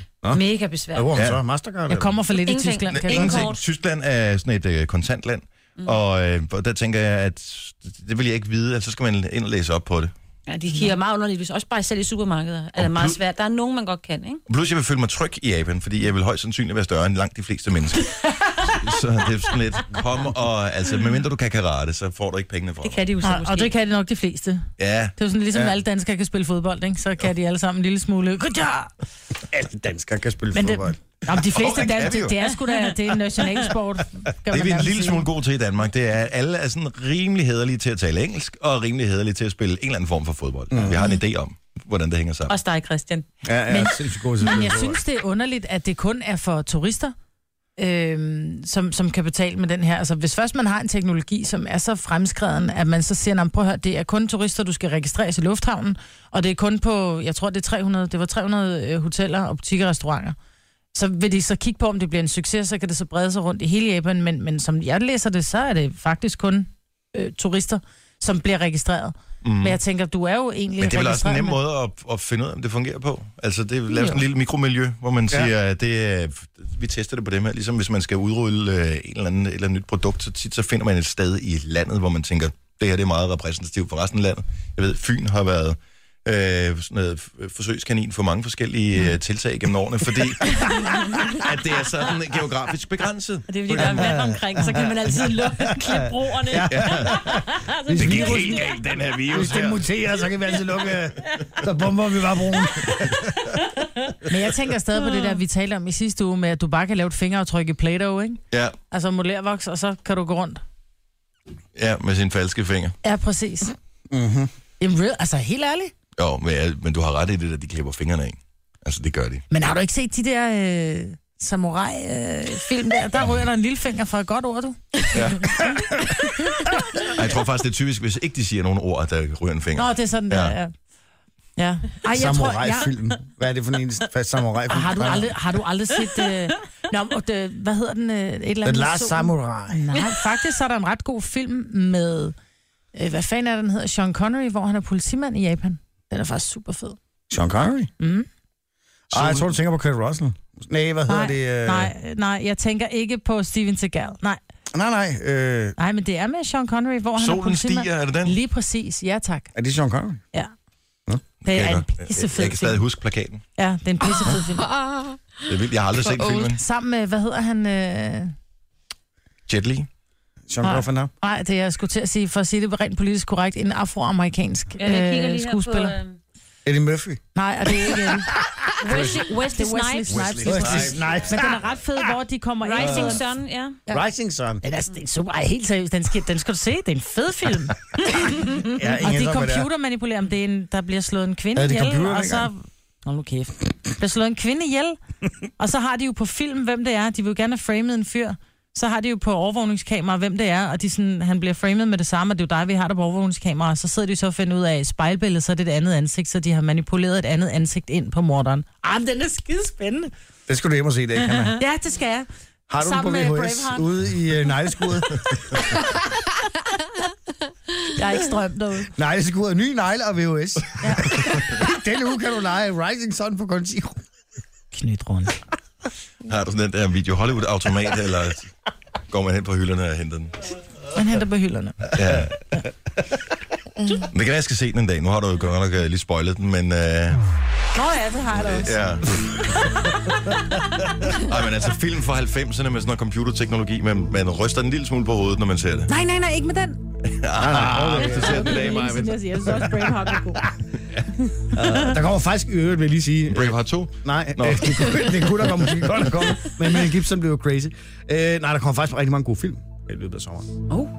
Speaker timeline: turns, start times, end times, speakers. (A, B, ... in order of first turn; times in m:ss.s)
0:00.3-0:01.1 A
0:00.9-0:02.2 B
0:01.9-0:03.4 C
0:02.4-0:03.6 A
0:03.0-0:10.1 D
0:10.5-0:14.4 A
0:12.8-0:13.2 D
0:14.5-0:18.0 D
0:18.7-0:23.0 D
0:22.8-0:23.7 A
0:23.2-0:28.9 C
0:24.8-0:25.1 D
0:29.5-0:31.0 B
0:30.5-0:35.3 C
0:31.4-0:32.5 D
0:34.5-0:42.6 D
0:40.7-0:41.0 B
0:42.5-0:43.2 A
0:43.4-0:45.0 B
0:43.7-0:47.1 C
0:47.8-1:00.4 C
1:00.9-1:11.6 C
1:09.4-1:09.8 D
1:10.8-1:30.7 D
1:31.3-1:34.2 D
1:33.5-1:38.8 A
1:33.7-1:38.7 B
1:36.7-1:37.3 D
1:37.9-1:39.9 D
1:39.3-1:43.3 B
1:44.3-1:50.6 C
1:45.1-1:45.4 A
1:51.8-1:52.9 D
1:53.0-1:53.7 C
1:54.1-1:54.5 B
1:54.8-1:55.9 C
1:56.2-1:59.4 D
1:59.5-2:05.7 C
2:05.1-2:05.6 D
2:06.2-2:06.6 C
2:07.1-2:10.6 D
2:09.8-2:10.7 C
2:11.6-2:12.9 C
2:12.1-2:15.3 B
2:14.7-2:22.3 C
2:18.6-2:19.8 B
2:22.9-2:27.0 C
2:27.3-2:27.9 B
2:28.0-2:28.3 C
2:29.1-2:29.5 D
2:29.1-2:31.9 B
2:31.1-2:34.4 C
2:34.7-2:35.8 B
2:35.8-2:39.5 C
2:37.2-2:38.4 D
2:39.5-2:40.2 B
2:41.4-2:42.8 C
2:41.4-2:43.4 D
2:43.6-2:44.6 C
2:44.2-2:46.5 E
2:45.5-2:46.6 D
2:46.5-2:48.3 C
2:49.5-2:49.9 D
2:50.5-2:51.1 B
2:50.6-2:55.9 C
2:54.8-2:56.2 A
2:56.6-2:57.2 B
2:57.3-2:58.4 C
2:57.9-2:59.0 B
2:58.8-3:00.8 A
2:59.5-3:03.2 C
3:00.1-3:01.1 D
3:00.4-3:01.6 B
3:02.6-3:03.8 A
3:02.8-3:03.2 B
3:03.9-3:04.6 B
3:04.6-3:15.0 C
3:08.7-3:09.7 B
3:11.5-3:12.5 B
3:15.6-3:30.1 C
3:30.5-3:31.6 B
3:31.6-3:32.3 C
3:32.7-3:35.4 B
3:32.8-3:33.9 C
3:37.9-3:38.9 C
3:39.0-3:44.0 B
3:40.8-3:41.2 C
3:44.7-3:45.4 C
3:46.2-3:48.5 D
3:49.1-3:50.4 D
3:50.9-3:51.9 C
3:51.9-3:52.4 D
3:54.1-3:57.2 D
3:57.8-3:58.8 C
3:58.4-3:59.2 D
3:59.5-4:00.1 C
4:01.1-4:05.9 D
4:05.9-4:06.8 C
4:07.0-4:09.2 D
4:07.4-4:08.6 B
4:08.0-4:10.5 C
4:11.5-4:20.5 B
4:13.3-4:15.2 D